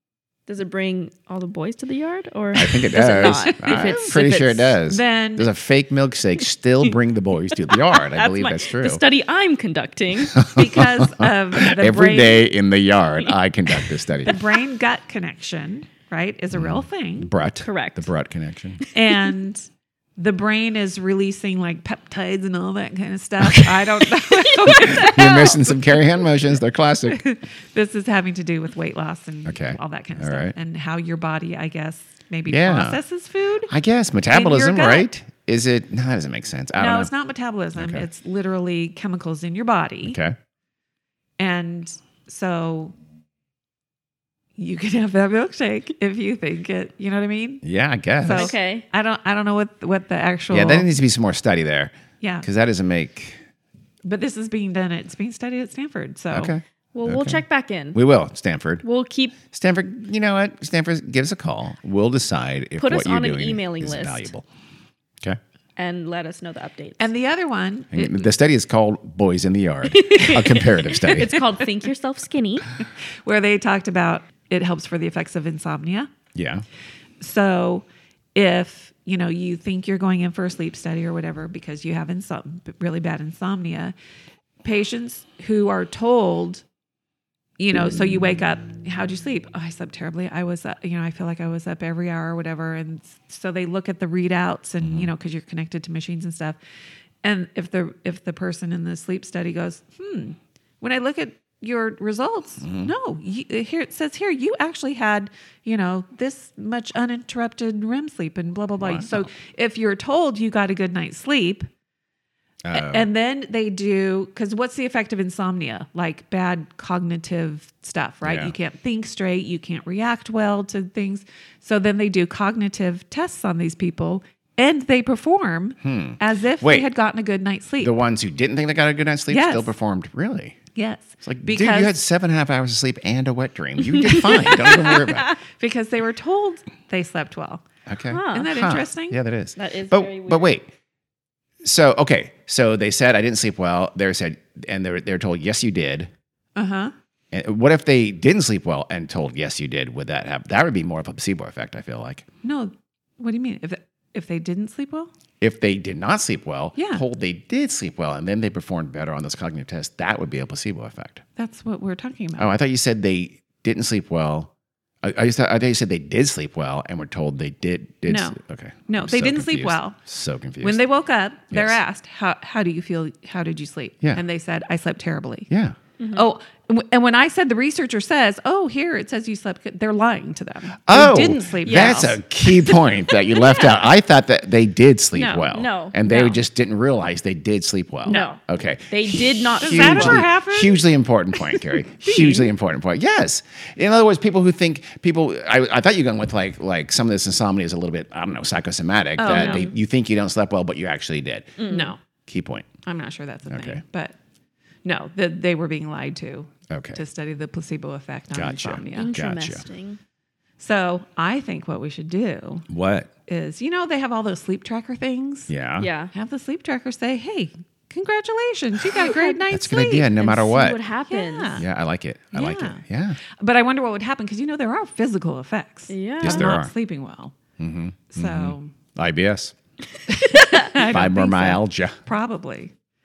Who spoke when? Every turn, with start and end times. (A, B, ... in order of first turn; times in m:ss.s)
0:00.5-0:04.8 A
0:02.6-0:09.0 B
0:03.0-0:03.9 C
0:04.9-0:05.5 C
0:07.5-0:10.4 A
0:10.3-0:14.4 B
0:10.5-0:12.5 C
0:14.2-0:17.3 C
0:16.5-0:18.8 B
0:17.6-0:18.1 A
0:18.8-0:19.3 A
0:18.9-0:25.5 C
0:23.4-0:24.1 B
0:24.5-0:26.0 A
0:24.6-0:27.2 B
0:27.1-0:33.7 C
0:29.5-0:30.6 B
0:32.5-0:33.0 B
0:33.7-0:37.1 B
0:34.3-0:35.1 C
0:36.8-0:40.2 C
0:37.8-0:38.1 B
0:40.0-0:40.4 B
0:41.4-0:43.0 C
0:44.6-0:47.6 C
0:47.6-0:48.5 B
0:48.2-0:50.9 C
0:48.3-0:48.8 A
0:50.5-0:53.4 B
0:52.2-0:52.5 C
0:54.0-0:56.6 C
0:56.3-0:57.4 B
0:56.9-0:58.0 A
0:57.9-0:58.8 B
0:58.8-0:59.4 A
0:59.4-1:04.5 B
1:02.8-1:04.3 A
1:05.8-1:07.1 A
1:07.0-1:08.0 C
1:07.9-1:11.5 B
1:09.9-1:12.7 A
1:13.2-1:16.1 C
1:16.4-1:16.6 B
1:17.2-1:23.9 C
1:24.6-1:26.6 C
1:27.6-1:36.6 C
1:34.8-1:35.1 B
1:37.2-1:51.7 C
1:42.6-1:42.9 B
1:48.8-1:49.3 B
1:52.6-1:53.1 B
1:52.7-2:08.0 C
1:58.2-1:58.5 B
2:05.8-2:06.9 B
2:07.8-2:10.6 B
2:09.3-2:09.7 C
2:10.8-2:12.0 C
2:11.2-2:15.4 B
2:14.1-2:15.3 A
2:15.6-2:17.6 C
2:17.9-2:20.7 B
2:18.1-2:18.5 A
2:18.3-2:19.2 C
2:19.6-2:20.5 A
2:21.6-2:26.1 B
2:26.6-2:26.9 C
2:27.3-2:32.3 B
2:32.4-2:35.1 C
2:35.4-2:41.2 B
2:36.8-2:37.0 C
2:41.4-2:42.6 C
2:42.4-2:44.5 B
2:45.0-2:50.8 B
2:48.1-2:48.4 C
2:48.9-2:50.0 C
2:50.6-2:55.5 C
2:51.5-2:51.8 B
2:55.5-2:55.8 B
2:56.0-2:56.3 A
2:56.1-3:02.2 C
3:00.9-3:21.6 B
3:01.6-3:02.8 A
3:03.4-3:03.8 A
3:05.1-3:06.3 A
3:06.1-3:06.3 C
3:08.0-3:08.4 C
3:08.1-3:10.3 A
3:09.6-3:10.8 C
3:11.5-3:12.4 C
3:12.1-3:12.5 A
3:19.2-3:19.7 C
3:19.3-3:19.7 A
3:21.6-3:21.9 A
3:21.6-3:22.0 C
3:22.3-3:22.7 B
3:22.8-3:24.2 C
3:23.5-3:23.8 B
3:24.8-3:29.1 C
3:26.7-3:27.0 B
3:28.3-3:29.6 B
3:28.9-3:30.0 A
3:30.6-3:32.7 C
3:32.7-3:33.1 B
3:33.3-3:35.5 C
3:35.5-3:35.9 B
3:35.8-3:36.1 A
3:36.1-3:40.1 C
3:39.1-3:39.4 A
3:39.5-3:40.8 B
3:40.1-3:41.6 A
3:41.1-3:41.6 C
3:41.6-3:43.2 B
3:42.3-3:47.4 C
3:45.9-3:46.6 A
3:46.2-3:46.7 B
3:47.6-3:49.5 B
3:48.1-3:48.7 C
3:50.1-3:52.7 C
3:50.2-3:50.7 A
3:50.7-3:52.0 B